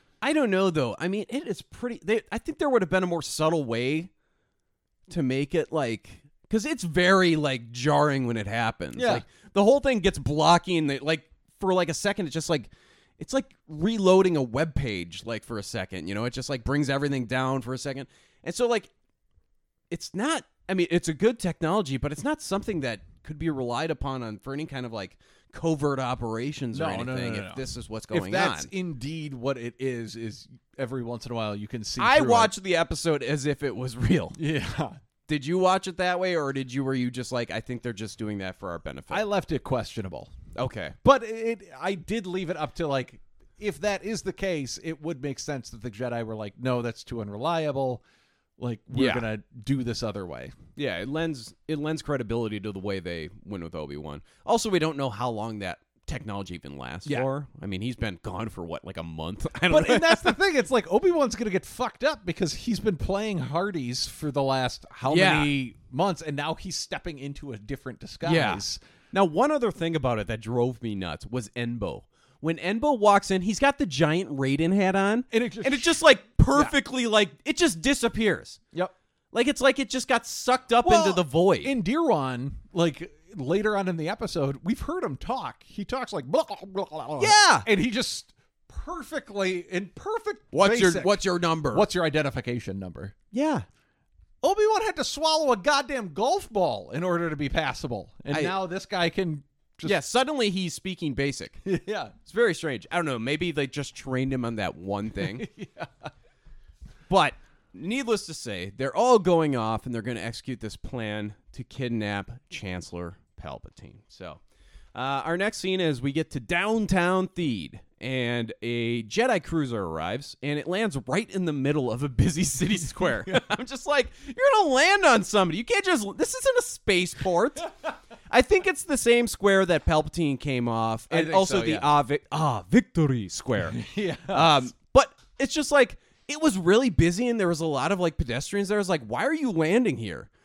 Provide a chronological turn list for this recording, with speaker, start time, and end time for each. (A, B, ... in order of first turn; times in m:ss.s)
0:00.2-0:04.1 A
0:05.1-0:18.9 A
0:09.0-0:09.2 B
0:19.9-0:28.7 A
0:26.7-0:32.5 B
0:32.0-0:34.4 A
0:34.3-0:35.0 B
0:35.3-0:39.2 A
0:39.1-0:40.3 B
0:40.5-0:41.0 A
0:41.0-0:48.0 B
0:48.6-0:50.5 B
0:48.9-0:49.3 A
0:50.8-1:00.4 A
0:59.7-1:08.8 B
1:05.0-1:05.5 A
1:08.2-1:18.6 A
1:15.3-1:16.7 B
1:19.3-1:21.7 A
1:20.8-1:33.2 B
1:27.2-1:27.7 A
1:30.5-1:31.9 A
1:33.3-1:33.6 A
1:34.4-1:40.0 B
1:38.3-1:38.6 A
1:39.8-1:41.6 A
1:41.6-1:42.1 B
1:42.2-1:45.5 A
1:45.4-1:46.1 B
1:47.1-1:54.4 A
1:54.9-2:07.8 A
2:03.3-2:03.5 B
2:08.3-2:20.3 A
2:11.1-2:11.9 B
2:13.7-2:14.7 B